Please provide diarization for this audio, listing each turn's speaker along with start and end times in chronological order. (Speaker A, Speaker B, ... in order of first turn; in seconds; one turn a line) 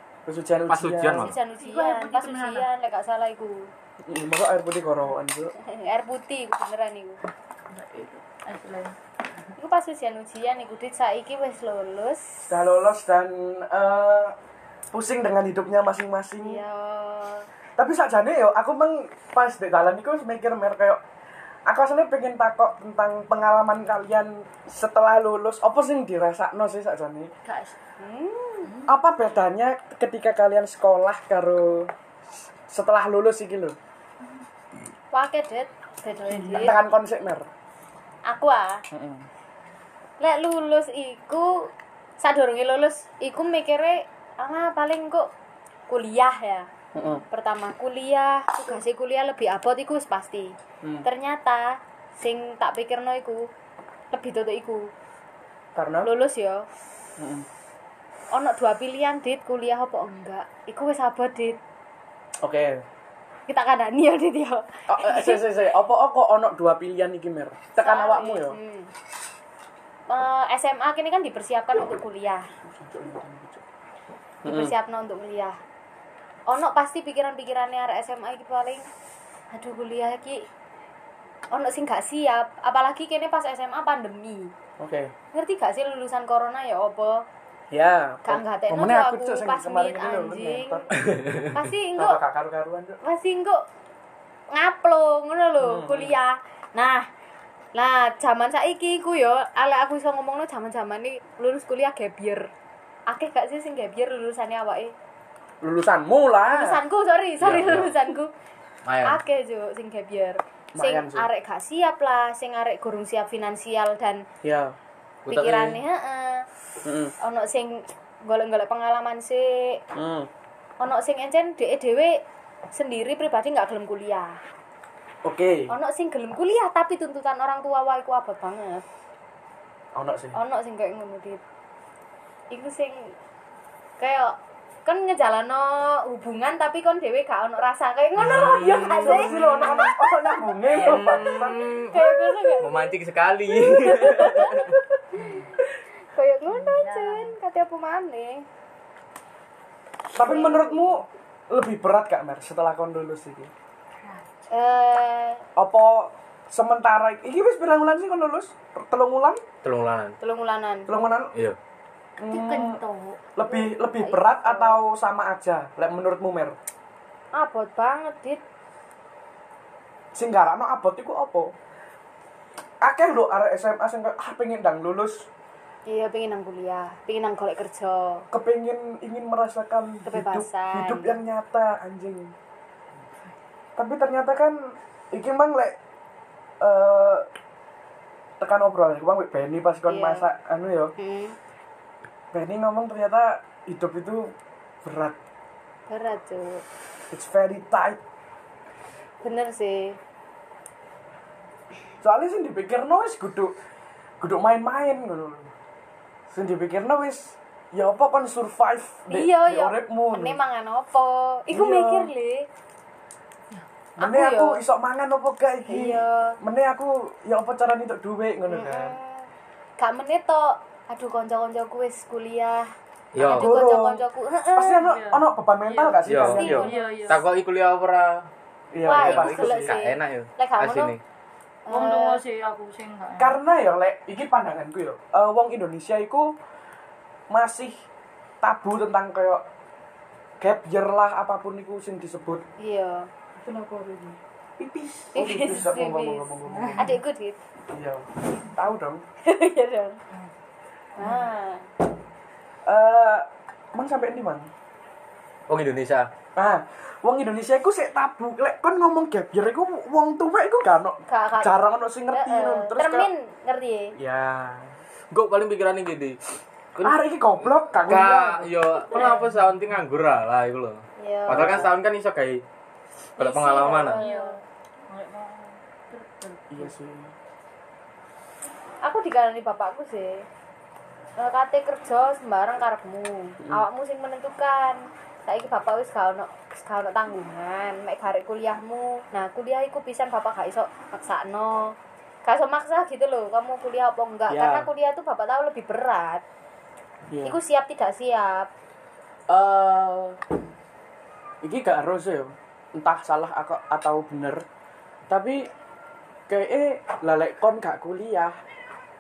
Speaker A: 0.3-1.3
Speaker B: 0.7-1.4
Speaker C: 1.2-3.7
Speaker D: 1.5-2.7
Speaker A: 4.0-5.5
Speaker C: 5.6-7.2
Speaker D: 7.7-9.0
Speaker C: 9.6-12.6
Speaker A: 12.5-14.4
Speaker A: 14.9-16.6
Speaker C: 16.4-17.5
Speaker A: 17.8-21.0
Speaker A: 21.7-27.3
Speaker D: 27.4-27.8
Speaker C: 28.0-28.7
Speaker D: 28.7-28.9
Speaker A: 28.9-31.9
Speaker A: 32.7-33.8
Speaker C: 35.1-36.8
Speaker A: 36.3-37.5
Speaker C: 38.2-38.8
Speaker A: 38.9-39.3
Speaker C: 40.2-45.3
Speaker C: 45.9-46.7
Speaker A: 46.9-47.2
Speaker C: 47.3-53.5
Speaker C: 54.1-54.9
Speaker A: 55.8-56.1
Speaker C: 56.0-56.7
Speaker A: 57.2-57.5
Speaker C: 58.3-61.6
Speaker A: 62.4-62.9
Speaker C: 63.5-65.5
Speaker A: 64.9-68.6
Speaker C: 67.8-68.9
Speaker C: 70.1-72.5
Speaker A: 72.6-73.6
Speaker A: 74.5-74.7
Speaker C: 74.5-75.6
Speaker C: 76.5-78.9
Speaker C: 79.5-80.5
Speaker C: 81.5-84.5
Speaker A: 84.8-85.1
Speaker C: 85.3-87.2
Speaker A: 87.7-93.0
Speaker C: 88.2-90.8
Speaker B: 91.2-91.5
Speaker C: 91.5-92.2
Speaker C: 93.0-93.6
Speaker C: 94.5-97.1
Speaker A: 95.6-96.2
Speaker C: 97.7-102.5
Speaker C: 103.1-104.9
Speaker A: 105.6-106.8
Speaker C: 106.5-108.3
Speaker B: 107.4-107.9
Speaker B: 108.8-109.2
Speaker C: 109.0-114.2
Speaker A: 110.8-111.3
Speaker A: 114.4-114.7
Speaker B: 115.3-115.8
Speaker C: 115.3-116.5
Speaker A: 116.8-117.1
Speaker C: 117.2-119.8
Speaker A: 120.0-120.3
Speaker C: 120.8-122.2
Speaker C: 122.7-124.4
Speaker A: 125.2-125.7
Speaker C: 125.7-128.8
Speaker A: 129.9-130.4
Speaker C: 130.3-131.4
Speaker C: 132.5-133.2
Speaker C: 134.0-140.0
Speaker B: 138.2-139.9
Speaker A: 139.0-141.6
Speaker B: 140.7-144.8
Speaker C: 141.9-148.5
Speaker D: 146.5-147.3
Speaker A: 150.1-153.5
Speaker C: 150.2-151.0
Speaker C: 154.5-155.4
Speaker A: 155.6-159.4
Speaker B: 159.6-160.2
Speaker C: 160.2-160.9
Speaker A: 160.9-161.3
Speaker A: 162.2-162.8
Speaker D: 162.2-163.2
Speaker A: 163.4-166.6
Speaker C: 163.9-164.8
Speaker C: 167.3-168.4
Speaker A: 170.1-171.5
Speaker A: 172.8-175.3
Speaker C: 175.9-178.3
Speaker A: 178.3-182.3
Speaker C: 180.1-181.2
Speaker A: 183.8-185.8
Speaker A: 186.6-187.3
Speaker A: 188.4-190.9
Speaker C: 189.9-190.3
Speaker C: 191.0-191.4
Speaker A: 192.3-194.3
Speaker A: 194.8-195.2
Speaker C: 195.9-196.6
Speaker A: 197.1-198.0
Speaker C: 199.2-200.0
Speaker A: 202.0-203.6
Speaker A: 204.2-205.5
Speaker A: 206.3-210.4
Speaker C: 209.1-212.5
Speaker A: 211.5-212.1
Speaker C: 214.0-214.6
Speaker A: 214.0-219.0
Speaker C: 215.7-216.4
Speaker C: 218.5-224.8
Speaker B: 223.1-223.6
Speaker A: 223.3-226.7
Speaker D: 224.8-227.2
Speaker B: 226.1-228.3
Speaker C: 226.3-227.0
Speaker A: 228.7-229.7
Speaker C: 228.8-230.9
Speaker B: 228.9-231.0
Speaker C: 231.7-232.2
Speaker D: 231.7-233.4
Speaker A: 233.2-236.3
Speaker A: 237.3-237.8
Speaker A: 238.4-239.4
Speaker A: 240.4-242.4
Speaker C: 242.6-243.1
Speaker A: 243.4-246.9
Speaker C: 245.1-247.4
Speaker D: 246.5-246.9
Speaker A: 247.7-249.0
Speaker C: 249.2-250.0
Speaker C: 251.0-251.7
Speaker A: 252.7-254.5
Speaker B: 255.5-256.1
Speaker A: 256.4-263.1
Speaker C: 261.1-263.9
Speaker A: 264.0-264.8
Speaker B: 265.1-266.2
Speaker A: 266.8-268.5
Speaker B: 267.7-272.4
Speaker D: 268.9-269.2
Speaker C: 271.0-271.7
Speaker A: 271.3-271.7
Speaker B: 273.2-274.0
Speaker C: 273.2-274.4
Speaker D: 273.8-276.7
Speaker A: 276.5-277.1
Speaker C: 278.8-280.3
Speaker C: 281.2-296.2
Speaker A: 294.3-294.7
Speaker A: 297.1-297.4
Speaker C: 297.2-298.5
Speaker A: 299.3-300.2
Speaker A: 301.4-304.4
Speaker A: 305.1-305.5
Speaker A: 306.3-308.4